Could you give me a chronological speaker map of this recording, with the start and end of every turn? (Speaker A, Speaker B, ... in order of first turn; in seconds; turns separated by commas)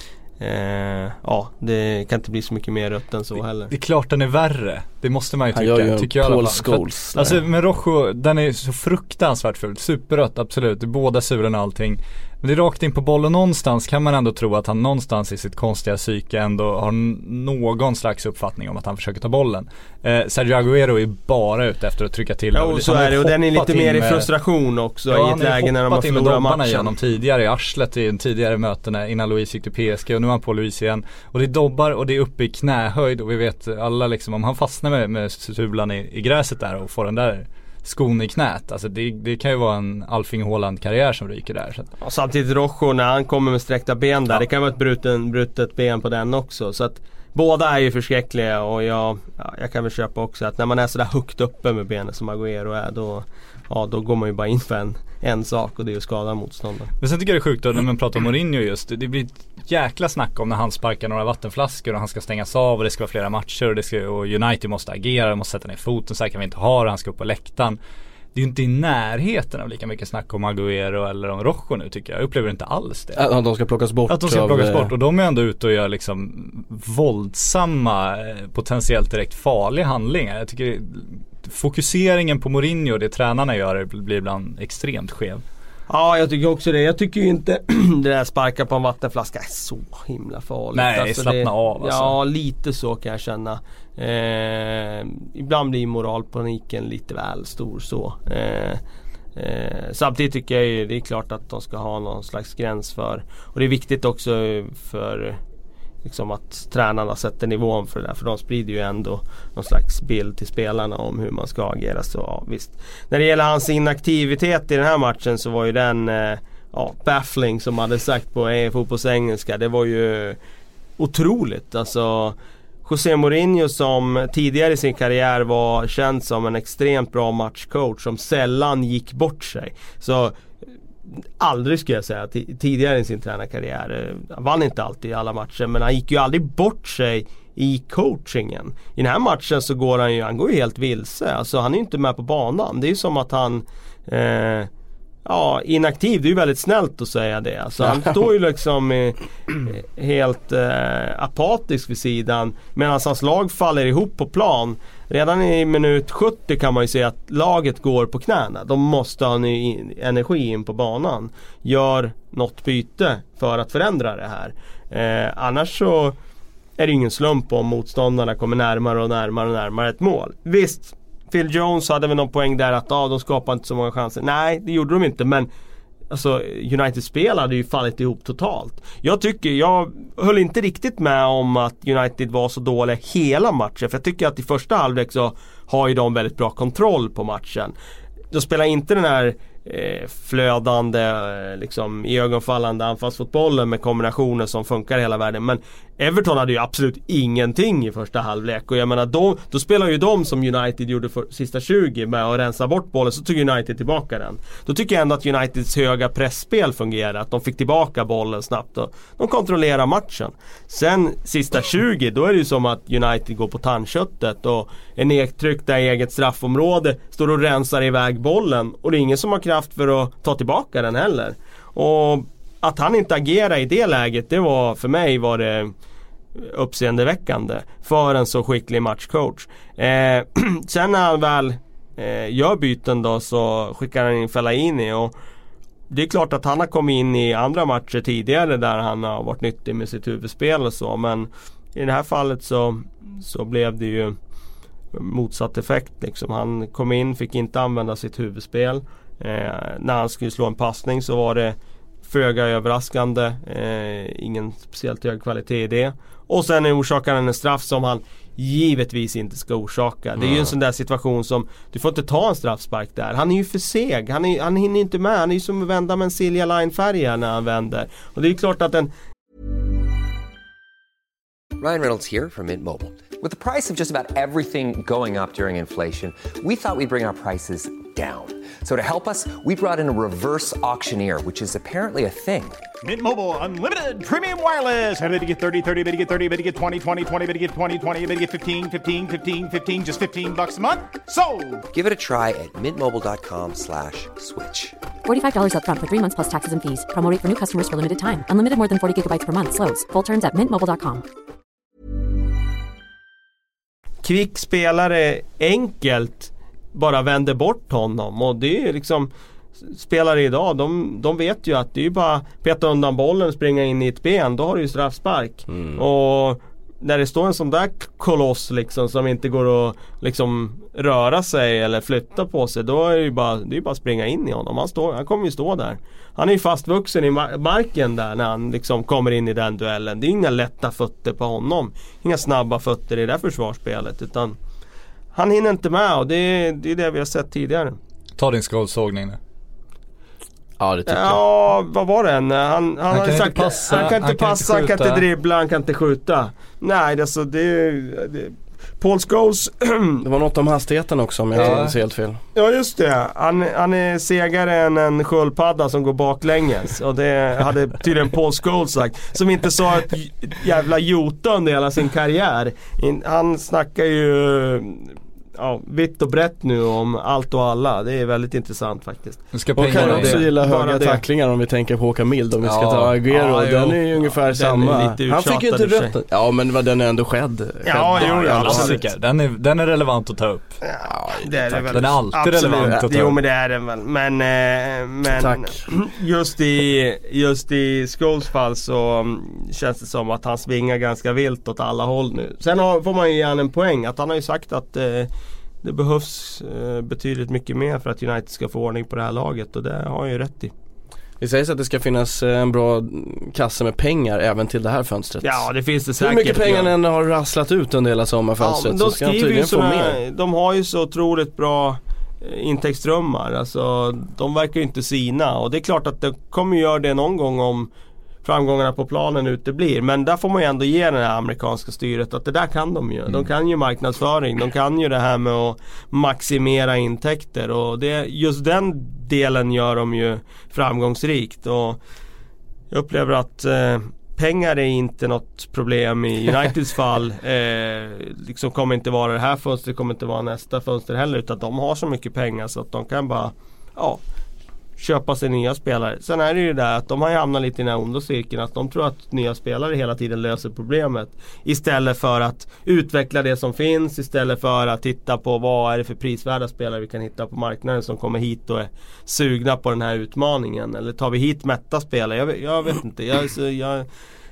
Speaker A: 0.4-3.7, Speaker B: 3.7-24.3, Speaker C: 5.5-7.4, Speaker A: 22.5-26.9, Speaker B: 25.1-41.9, Speaker A: 42.0-56.9, Speaker B: 57.0-67.8, Speaker B: 68.3-73.2, Speaker C: 73.1-74.9, Speaker B: 74.1-85.4, Speaker A: 85.9-98.8, Speaker B: 90.7-92.1, Speaker A: 99.4-105.4, Speaker A: 106.0-120.4, Speaker A: 121.0-130.4, Speaker A: 131.4-144.7, Speaker A: 145.2-166.2, Speaker A: 166.8-175.5, Speaker A: 176.1-187.7, Speaker A: 188.3-225.7, Speaker A: 226.4-235.1, Speaker A: 235.9-244.2, Speaker A: 244.9-268.9, Speaker C: 260.2-260.5, Speaker D: 271.6-282.6, Speaker E: 282.8-291.7, Speaker D: 291.7-294.8, Speaker F: 295.1-301.0, Speaker A: 304.0-334.4, Speaker C: 315.5-315.8, Speaker A: 335.1-337.8, Speaker B: 338.2-339.2, Speaker C: 340.6-341.2, Speaker A: 340.9-350.0, Speaker B: 342.9-345.1, Speaker C: 350.0-352.2, Speaker A: 351.4-351.6, Speaker B: 351.4-351.7, Speaker A: 352.4-371.0, Speaker B: 369.3-370.2, Speaker C: 369.6-378.8, Speaker B: 372.4-373.0, Speaker A: 373.1-375.9, Speaker A: 377.6-378.8, Speaker B: 377.9-380.6, Speaker A: 380.6-395.1, Speaker C: 380.8-381.9, Speaker B: 381.7-383.1, Speaker C: 382.6-382.9, Speaker C: 385.1-385.6, Speaker A: 395.6-400.5, Speaker C: 401.2-405.5, Speaker A: 405.2-406.7, Speaker C: 406.0-410.0, Speaker A: 408.4-417.7, Speaker A: 418.2-431.8, Speaker A: 432.7-444.0, Speaker A: 444.8-463.9